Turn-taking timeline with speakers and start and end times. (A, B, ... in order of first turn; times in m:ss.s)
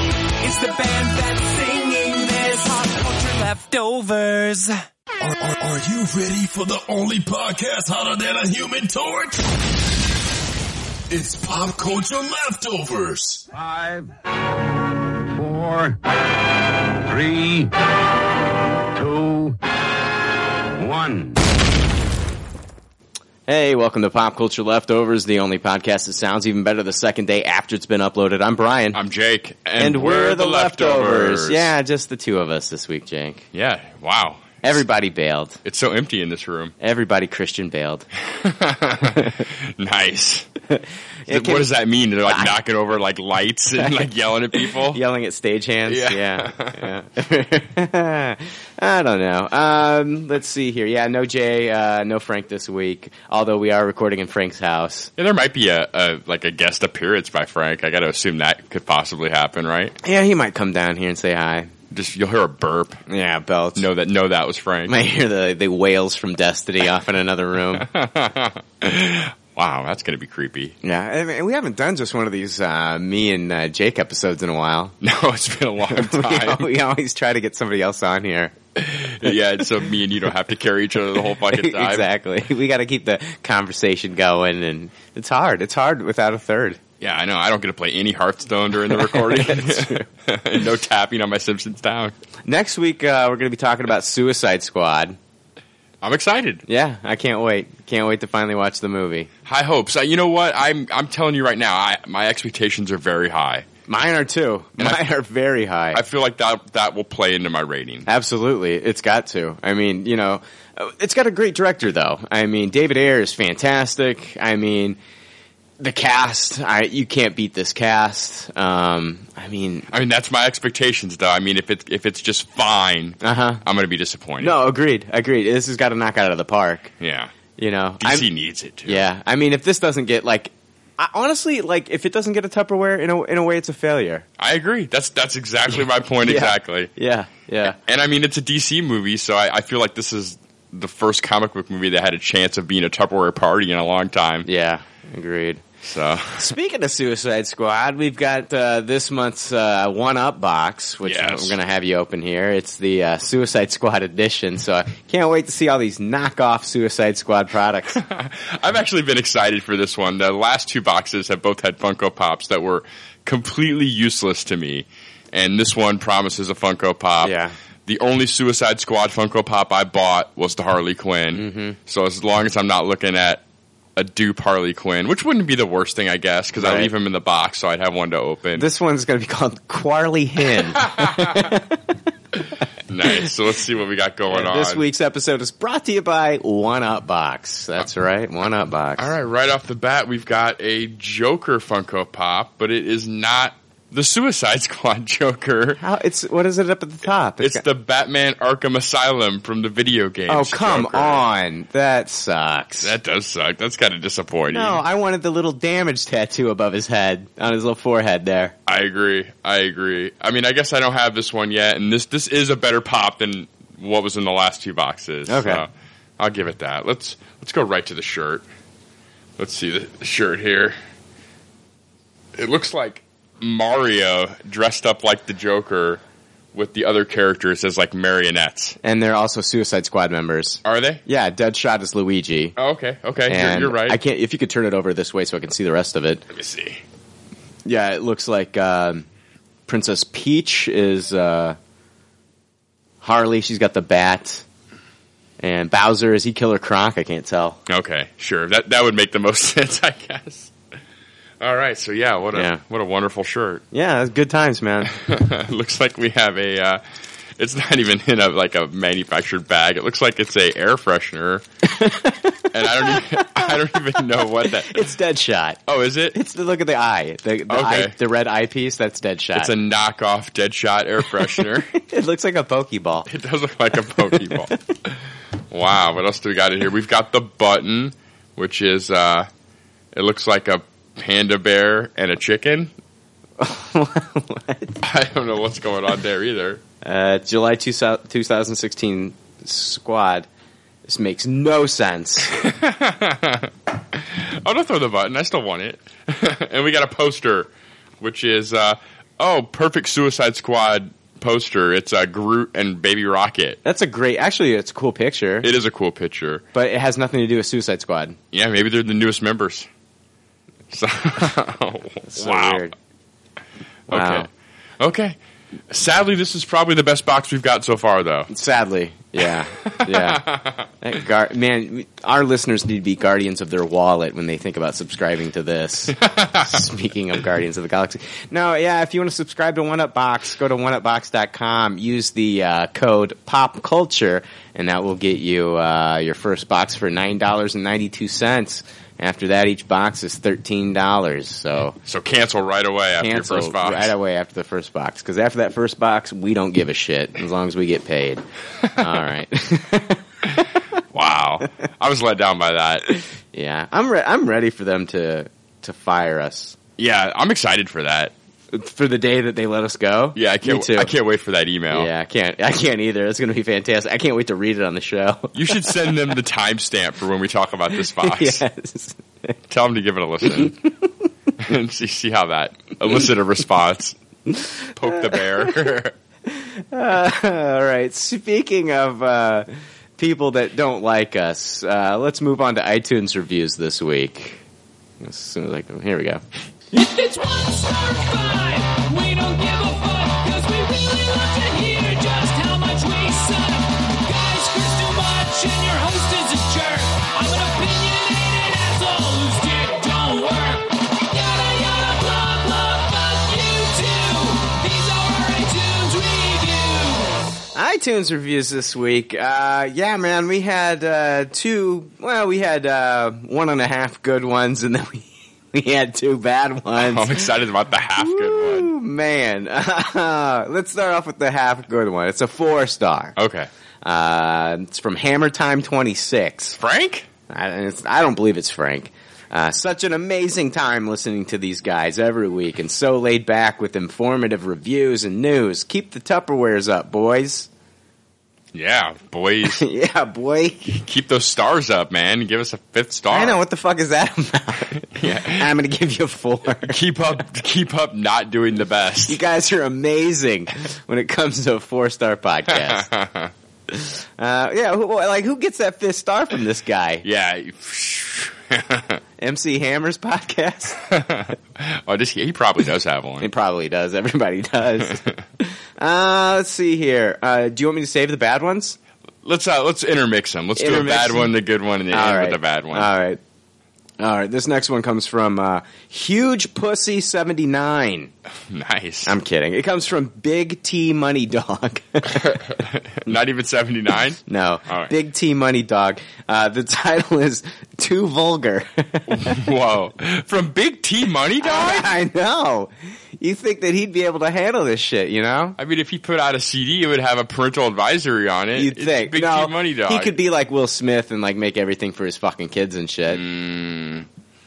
0:00.4-0:04.7 A
0:05.2-0:09.4 B
0:11.1-0:13.4 B
0:13.5-0:14.1 C
0:15.4-0:16.0 C
0:17.1-0:17.7 C
0:18.9-0:19.6 C
0:20.8-0:21.4 C
0:23.5-0:29.0 D
0:28.9-0:31.7 E
0:29.8-0:33.4 D
0:33.5-0:34.7 E
0:34.6-0:35.6 D
0:35.6-0:36.7 E
0:36.8-0:38.0 D
0:38.3-0:40.5 E
0:40.7-0:41.7 D
0:41.3-0:45.0 E
0:42.3-0:42.5 D
0:44.6-0:55.1 D
0:45.9-0:46.9 E
0:55.2-0:59.9 E
1:00.0-1:01.7 D
1:01.9-1:03.0 E
1:03.1-1:03.9 D
1:03.8-1:05.0 E
1:04.8-1:07.8 D
1:07.7-1:10.7 E
1:10.8-1:15.0 D
1:15.0-1:16.7 E
1:15.9-1:18.5 D
1:18.8-1:22.1 E
1:21.4-1:26.8 D
1:27.0-1:32.1 E
1:28.9-1:30.0 D
1:32.4-1:35.2 D
1:36.0-1:36.6 E
1:36.7-1:39.3 D
1:39.4-1:43.6 E
1:43.9-1:46.0 D
1:45.9-1:48.0 E
1:48.0-1:55.0 D
1:55.8-1:59.9 D
1:59.9-2:04.5 E
2:03.2-2:03.6 D
2:04.4-2:06.9 D
2:07.0-2:07.3 E
2:07.6-2:08.3 D
2:08.0-2:09.0 E
2:08.8-2:14.2 D
2:14.4-2:16.9 E
2:16.2-2:17.8 D
2:17.7-2:24.4 E
2:24.4-2:25.6 D
2:25.8-2:26.4 E
2:26.4-2:38.0 D
2:31.0-2:31.6 E
2:37.9-2:47.3 E
2:47.2-2:47.5 D
2:47.9-2:53.4 E
2:51.3-2:51.8 D
2:54.0-2:58.6 E
2:56.6-2:56.9 D
2:58.6-3:01.8 D
3:01.0-3:01.3 E
3:02.9-3:04.8 E
3:04.3-3:09.1 D
3:09.0-3:15.8 E
3:15.8-3:17.6 D
3:17.4-3:21.2 E
3:20.3-3:23.0 D
3:22.8-3:24.8 E
3:24.5-3:28.6 D
3:28.7-3:38.4 E
3:35.3-3:35.6 D
3:39.4-3:40.8 E
3:42.4-3:46.0 E
3:46.5-3:48.8 E
3:48.8-3:52.5 D
3:50.6-3:51.0 E
3:52.6-3:54.0 E
3:53.3-3:56.2 D
3:56.3-3:56.8 E
3:57.6-3:59.0 D
3:59.7-4:01.6 D
4:03.0-4:04.4 D
4:05.4-4:07.6 D
4:07.7-4:10.5 E
4:11.4-4:13.6 E
4:12.3-4:12.6 D
4:13.7-4:14.9 D
4:14.9-4:16.8 E
4:17.4-4:21.4 E
4:21.6-4:25.6 D
4:22.5-4:24.9 E
4:25.7-4:26.2 E
4:26.1-4:29.5 D
4:27.5-4:27.9 E
4:29.3-4:31.7 E
4:31.2-4:33.1 D
4:33.1-4:34.6 E
4:33.8-4:34.5 D
4:35.5-4:39.3 E
4:39.9-4:42.7 E
4:43.4-4:44.8 D
4:44.8-4:46.6 E
4:46.8-4:50.3 D
4:50.8-4:52.3 D
4:52.3-4:57.5 E
4:58.0-5:03.6 E
5:03.6-5:05.5 D
5:05.4-5:06.4 E
5:06.5-5:08.2 D
5:08.3-5:09.7 E
5:10.7-5:12.6 E
5:12.1-5:12.7 D
5:13.9-5:14.3 D
5:13.9-5:14.3 E
5:14.8-5:15.2 E
5:15.7-5:18.3 E
5:18.3-5:20.2 D
5:19.6-5:20.6 E
5:20.8-5:41.8 D
5:26.0-5:26.5 E
5:41.8-5:43.9 E
5:43.0-5:48.2 D
5:48.8-5:50.4 D
5:50.9-5:53.0 E
5:53.3-5:56.6 D
5:56.8-5:58.1 E
5:58.5-6:00.9 D
6:00.2-6:01.9 E
6:01.7-6:05.9 D
6:05.3-6:08.4 E
6:07.9-6:09.3 D
6:09.5-6:10.6 E
6:11.4-6:14.0 E
6:14.7-6:15.9 E
6:14.8-6:15.5 D
6:16.3-6:19.5 D
6:20.0-6:24.4 D
6:25.0-6:26.2 D
6:26.7-6:47.2 F
6:47.5-6:57.3 D
6:56.8-6:58.7 E
6:58.0-7:03.2 D
7:03.2-7:03.5 E
7:03.8-7:06.6 D
7:06.6-7:07.1 E
7:07.3-7:17.5 D
7:18.5-7:19.6 E
7:19.4-7:20.8 D
7:20.8-7:23.4 E
7:23.1-7:26.8 D
7:24.9-7:25.5 E
7:26.6-7:29.2 E
7:29.1-7:32.9 D
7:32.5-7:33.3 E
7:33.7-7:37.0 D
7:37.0-7:39.0 E
7:39.2-7:40.8 D
7:40.9-7:43.3 E
7:43.2-7:48.8 D
7:44.8-7:45.1 E
7:49.2-7:52.9 E
7:50.6-7:51.3 D
7:51.9-7:53.2 D
7:54.0-7:58.1 D
7:58.5-7:59.1 E
7:59.0-8:02.4 D
8:02.2-8:04.9 E
8:04.3-8:09.4 D
8:09.1-8:11.9 E
8:11.4-8:15.6 D
8:15.6-8:20.1 E
8:18.5-8:23.2 D
8:23.1-8:24.1 E